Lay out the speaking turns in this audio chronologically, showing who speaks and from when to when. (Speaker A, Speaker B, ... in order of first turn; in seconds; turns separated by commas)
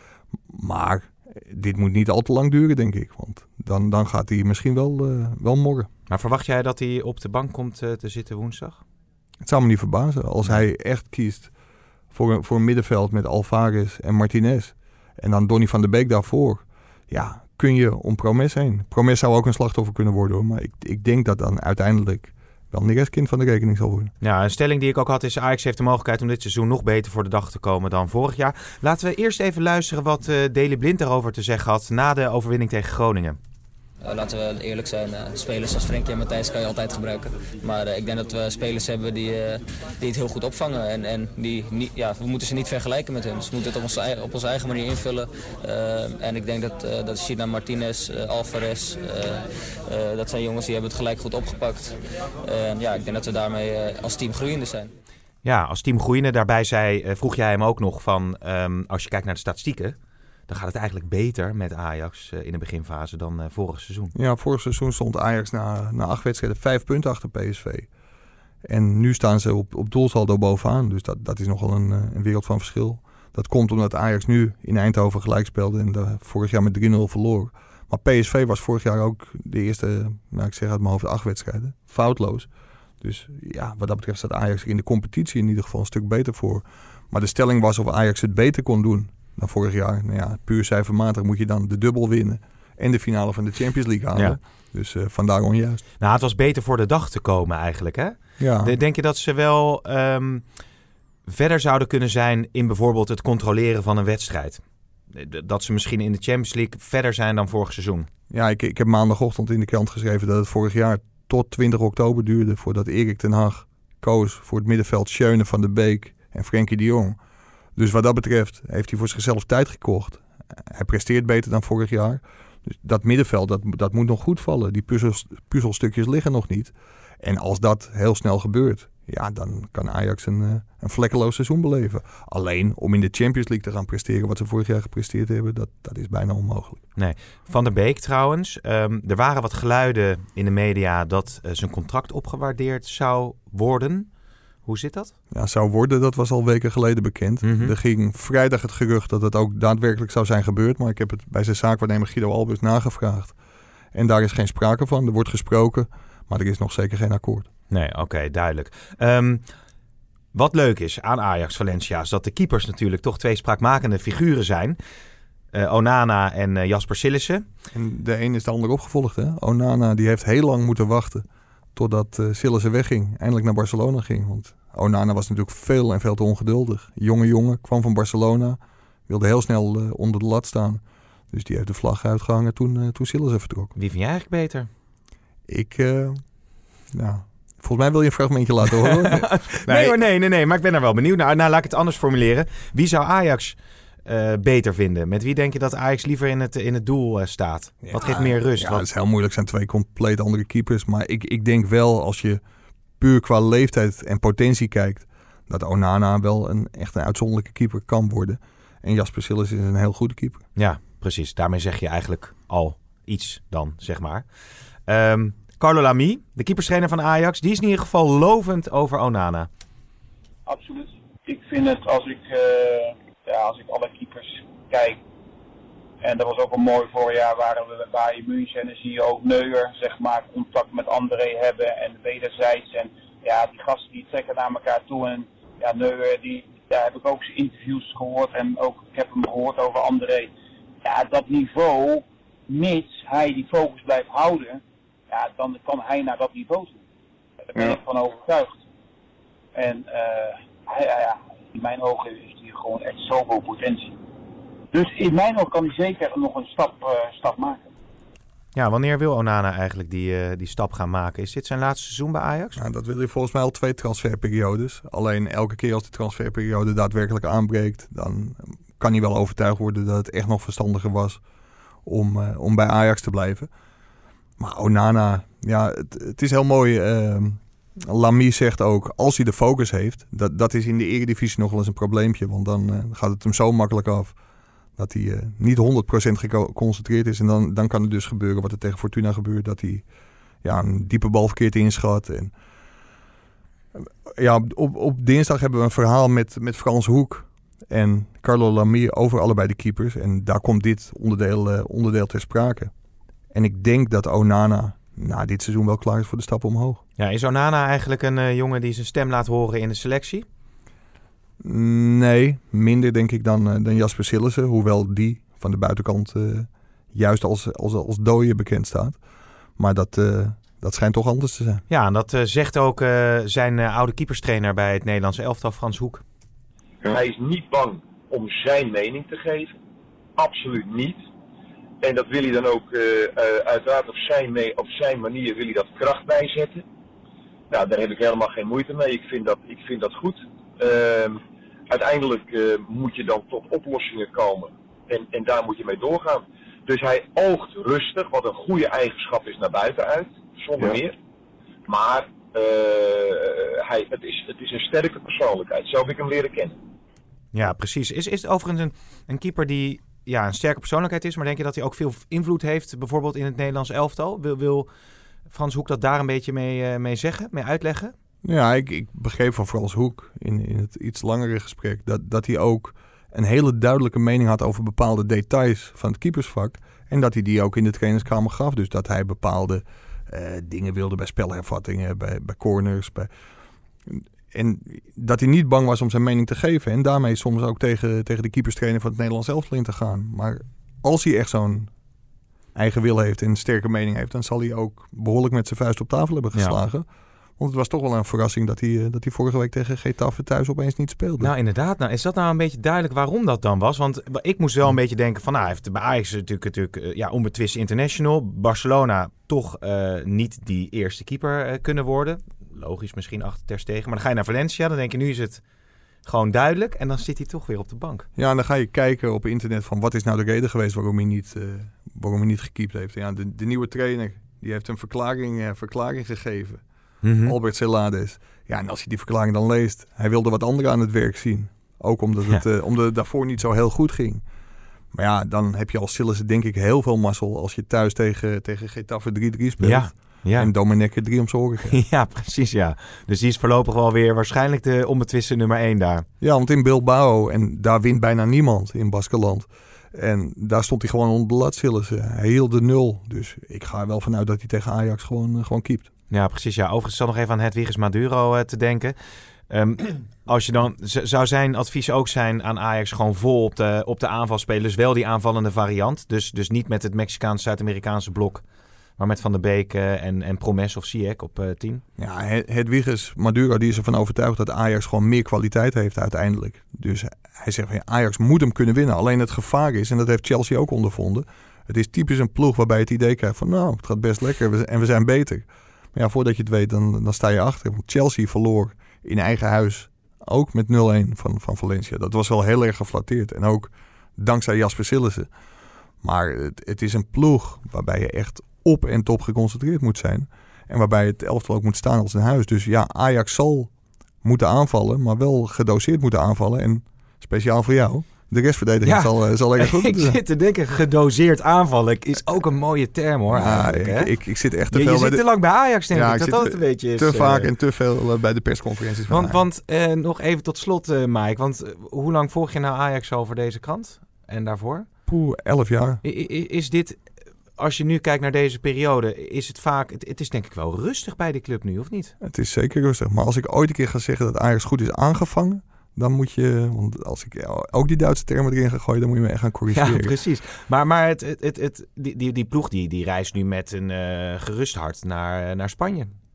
Speaker A: 0.5-5.9, Speaker B: 6.1-8.8, Speaker A: 9.4-11.5, Speaker A: 12.1-24.1, Speaker B: 24.2-33.4, Speaker C: 34.0-54.9, Speaker B: 55.4-60.0, Speaker B: 60.5-64.1, Speaker A: 64.2-67.9, Speaker A: 68.6-82.5, Speaker A: 83.0-95.8, Speaker B: 96.0-100.5, Speaker A: 98.4-98.7, Speaker B: 101.3-108.1, Speaker A: 108.3-117.2, Speaker A: 117.8-136.8, Speaker B: 137.0-144.1, Speaker B: 144.7-145.2, Speaker A: 145.3-153.3, Speaker B: 147.4-147.7, Speaker A: 153.9-157.5, Speaker B: 157.7-159.4, Speaker B: 160.3-164.8, Speaker B: 165.5-167.4, Speaker A: 167.7-183.7, Speaker B: 183.8-184.7, Speaker A: 185.5-186.2, Speaker A: 186.9-190.0, Speaker B: 188.8-198.8, Speaker A: 197.8-202.4, Speaker A: 203.0-210.4, Speaker B: 210.6-214.3, Speaker B: 214.9-219.5, Speaker D: 220.5-225.0, Speaker D: 226.0-246.8, Speaker D: 247.5-248.5, Speaker D: 249.6-254.0, Speaker D: 254.7-257.7, Speaker B: 258.6-262.6, Speaker A: 262.6-271.2, Speaker A: 271.9-273.5, Speaker A: 274.4-284.1, Speaker A: 284.8-289.9, Speaker A: 290.4-292.3, Speaker A: 293.8-302.7, Speaker A: 303.3-306.8, Speaker B: 307.0-310.3, Speaker A: 311.4-319.0, Speaker A: 319.6-321.6, Speaker B: 321.7-326.0, Speaker E: 326.8-329.6, Speaker E: 330.2-331.0, Speaker E: 331.8-336.6, Speaker E: 337.5-350.9, Speaker E: 351.7-356.6, Speaker B: 357.3-364.7, Speaker B: 365.3-367.9, Speaker A: 368.2-383.1, Speaker A: 383.9-391.7, Speaker A: 392.6-396.9, Speaker A: 397.4-401.3, Speaker B: 401.2-415.4, Speaker B: 416.1-418.1, Speaker A: 418.2-426.6, Speaker B: 427.0-427.4, Speaker A: 427.2-434.2, Speaker A: 434.9-441.8, Speaker B: 439.6-440.5, Speaker B: 441.6-446.1, Speaker A: 446.2-455.9, Speaker B: 456.1-458.9, Speaker B: 459.5-468.4, Speaker B: 469.0-471.8, Speaker A: 472.0-495.3, Speaker A: 496.0-503.7, Speaker A: 504.2-510.2, Speaker B: 508.9-514.1, Speaker A: 513.3-515.2, Speaker B: 514.7-517.5, Speaker A: 515.9-519.4, Speaker B: 519.1-524.9, Speaker A: 525.1-526.0, Speaker B: 526.0-527.0, Speaker B: 527.6-532.1, Speaker A: 532.2-540.1, Speaker B: 539.8-546.1